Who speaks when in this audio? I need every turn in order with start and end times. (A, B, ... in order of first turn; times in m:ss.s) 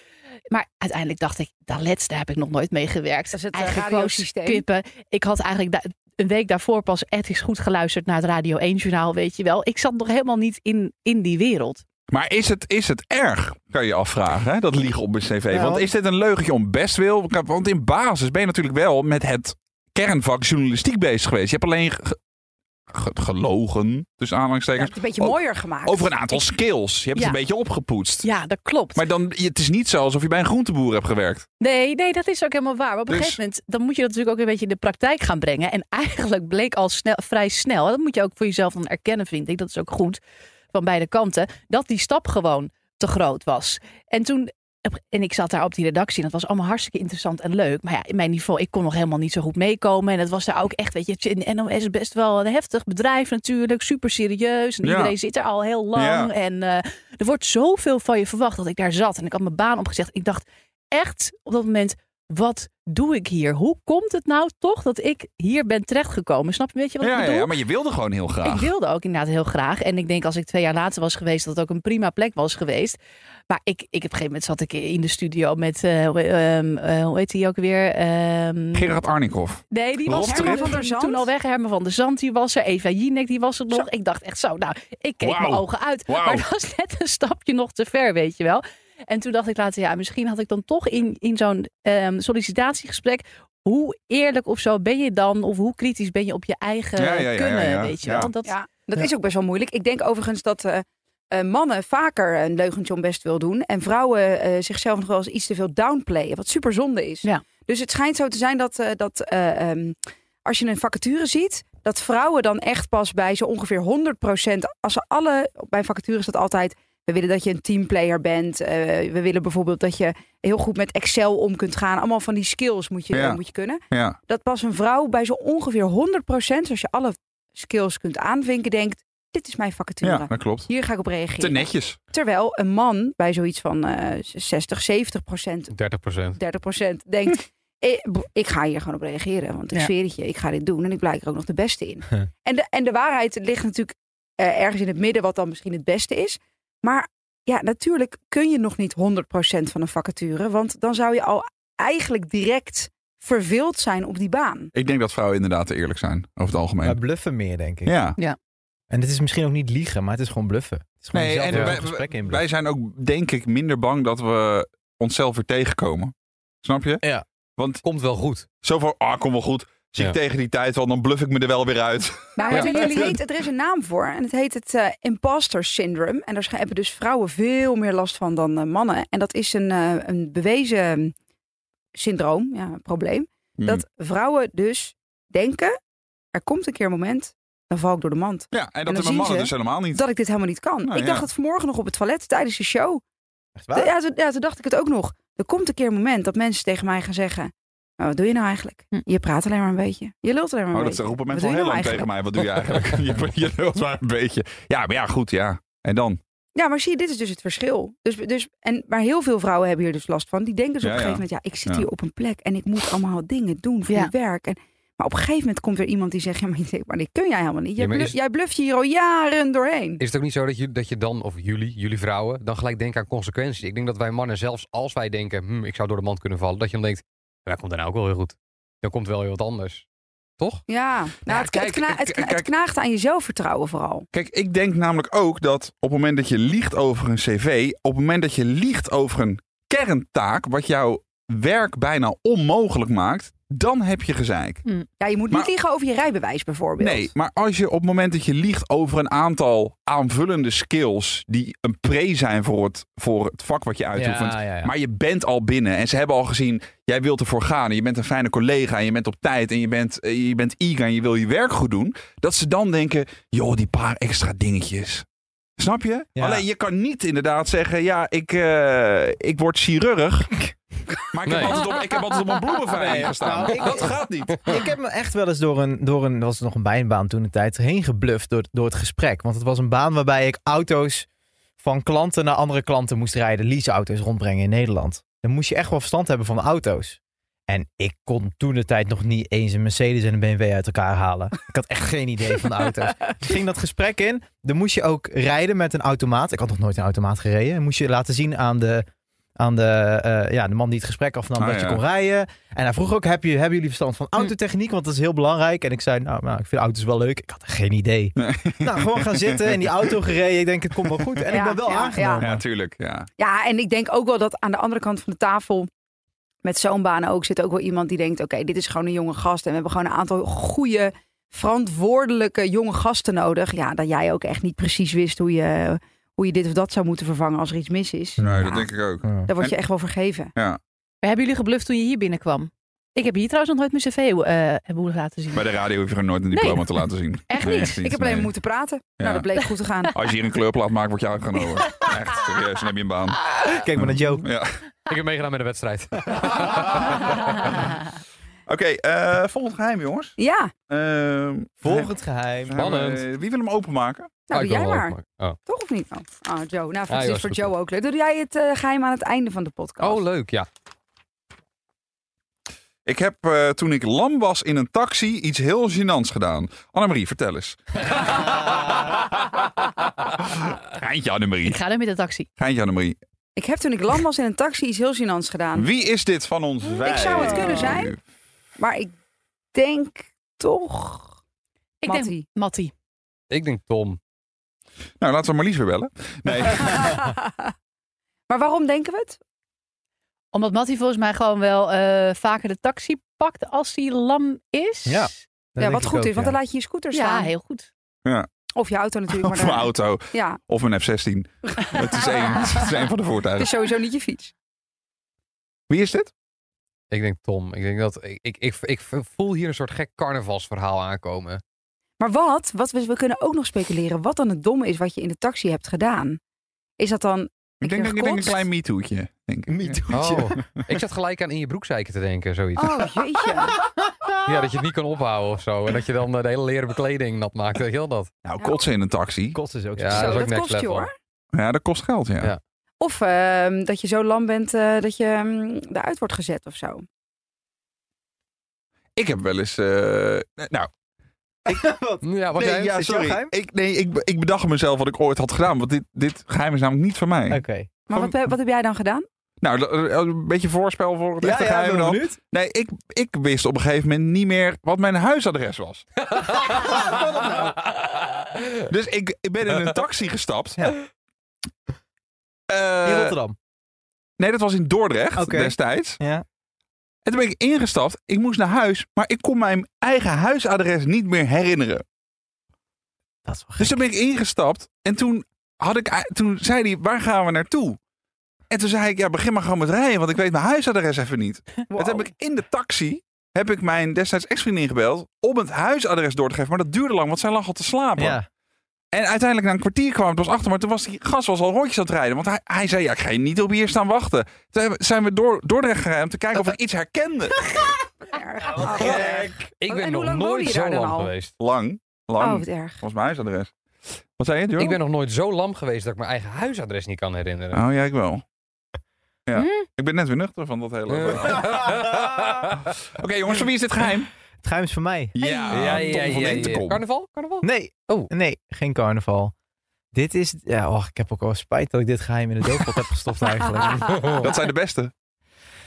0:00.5-0:11.8 A
0:03.3-0:04.6 B
0:12.1-0:22.2 C
0:15.5-0:15.9 D
0:22.9-0:28.3 C
0:24.8-0:26.2 B
0:28.2-0:29.0 A
0:29.0-0:31.5 C
0:31.6-0:40.2 A
0:33.1-0:33.4 C
0:40.7-1:07.6 A
0:54.8-0:55.2 C
0:56.0-0:56.3 C
1:07.0-1:08.7 C
1:08.4-1:13.0 A
1:13.5-1:19.0 A
1:18.7-1:20.8 C
1:19.7-1:38.6 A
1:20.2-1:21.3 B
1:25.2-1:26.4 C
1:37.0-1:38.3 C
1:38.4-2:15.7 B
2:03.1-2:03.4 C
2:03.9-2:04.2 C
2:10.0-2:10.7 C
2:11.4-2:12.0 C
2:15.7-2:16.4 E
2:16.4-2:34.7 B
2:34.7-2:37.0 C
2:36.8-2:38.0 D
2:37.9-2:38.2 C
2:38.9-2:42.4 D
2:41.1-2:46.1 C
2:41.5-2:41.8 E
2:46.6-2:47.0 C
2:47.6-2:47.8 C
2:47.8-2:48.5 E
2:48.6-2:53.0 C
2:52.4-3:01.1 B
3:02.0-3:05.8 B
3:06.3-3:13.0 B
3:08.5-3:10.0 C
3:10.8-3:11.3 C
3:13.6-3:13.9 D
3:13.7-3:22.1 B
3:20.7-3:26.2 C
3:26.6-3:40.0 B
3:30.8-3:31.9 C
3:37.8-3:38.2 E
3:40.0-3:49.8 E
3:50.4-3:50.6 E
3:50.7-3:54.1 B
3:51.3-3:51.6 E
3:51.4-3:52.5 C
3:54.1-4:04.6 C
4:04.7-4:04.9 A
4:05.0-4:07.1 B
4:06.8-4:25.1 C
4:14.0-4:14.7 D
4:25.6-4:30.4 C
4:26.2-4:26.5 D
4:31.0-4:34.5 C
4:31.3-4:31.6 E
4:32.7-4:41.1 D
4:41.6-4:58.9 D
4:59.4-5:12.4 D
5:01.4-5:01.8 C
5:08.2-5:09.5 C
5:11.3-5:12.3 B
5:12.2-5:13.1 C
5:13.2-5:15.7 B
5:16.4-5:28.7 B
5:28.2-5:28.5 D
5:28.2-5:29.6 C
5:29.0-5:29.3 D
5:29.3-5:30.3 B
5:31.0-5:35.6 A
5:35.3-5:38.3 C
5:36.3-5:37.8 A
5:37.8-5:40.0 B
5:39.0-5:39.3 C
5:39.4-5:40.1 A
5:40.0-5:43.2 C
5:43.3-5:44.3 D
5:43.8-5:44.6 C
5:44.9-5:47.5 E
5:46.8-5:47.7 C
5:48.5-5:50.2 C
5:50.2-5:50.5 B
5:50.7-5:54.3 C
5:51.6-5:52.7 D
5:52.6-5:53.0 E
5:54.3-6:00.0 B
5:54.3-5:55.4 E
5:56.9-5:57.5 E
5:59.8-6:00.5 E
6:02.9-6:08.2 C
6:08.1-6:08.8 E
6:10.5-6:11.6 C
6:11.4-6:12.3 A
6:12.4-6:13.0 C
6:13.4-6:15.7 B
6:15.6-6:18.0 C
6:16.8-6:18.0 B
6:18.6-6:18.9 B
6:19.5-6:21.2 B
6:21.8-6:22.7 A
6:21.9-6:22.3 B
6:23.3-6:24.0 E
6:25.0-6:27.0 C
6:26.6-6:27.5 B
6:28.3-6:29.2 B
6:30.3-6:35.2 A
6:34.9-6:36.4 D
6:35.6-6:37.3 B
6:36.9-6:37.7 A
6:38.6-6:40.4 B
6:39.1-6:43.5 C
6:41.6-6:42.6 B
6:43.4-6:44.3 B
6:45.7-6:46.1 C
6:46.9-6:51.4 E
6:52.0-6:56.2 B
6:56.8-6:58.5 B
6:57.6-6:59.8 C
6:59.5-7:00.4 D
6:59.9-7:02.8 E
7:02.6-7:03.6 B
7:03.8-7:04.5 D
7:04.2-7:08.1 E
7:08.2-7:09.4 C
7:09.3-7:10.3 D
7:09.8-7:10.9 E
7:09.9-7:10.9 B
7:11.3-7:12.3 C
7:12.8-7:16.8 B
7:19.0-7:20.7 C
7:21.5-7:23.3 D
7:22.0-7:22.7 E
7:22.4-7:27.4 C
7:27.3-7:27.9 D
7:27.9-7:29.1 B
7:29.4-7:35.8 C
7:31.2-7:32.2 D
7:36.1-7:37.1 E
7:36.3-7:37.6 D
7:37.9-7:38.5 E
7:38.7-7:40.7 C
7:42.5-7:43.2 C
7:42.8-7:43.4 D
7:44.2-7:46.0 C
7:45.2-7:46.2 D
7:47.1-7:51.8 C
7:53.3-7:53.8 D
7:53.6-7:57.8 C
7:58.5-8:08.2 C
8:01.7-8:02.0 B
8:08.0-8:08.3 D
8:08.9-8:17.4 C
8:17.4-8:17.7 D
8:18.0-8:21.1 B
8:18.6-8:19.5 D
8:18.6-8:21.3 E
8:21.4-8:23.5 C
8:22.2-8:22.8 B
8:24.2-8:24.8 C
8:24.6-8:27.6 E
8:27.5-8:28.2 C
8:29.3-8:34.1 C
8:30.9-8:32.5 E
8:34.4-8:35.8 D
8:35.2-8:36.8 C
8:35.2-8:38.1 E
8:37.4-8:39.3 D
8:39.9-8:44.4 D
8:43.7-8:44.2 E
8:44.2-8:44.9 C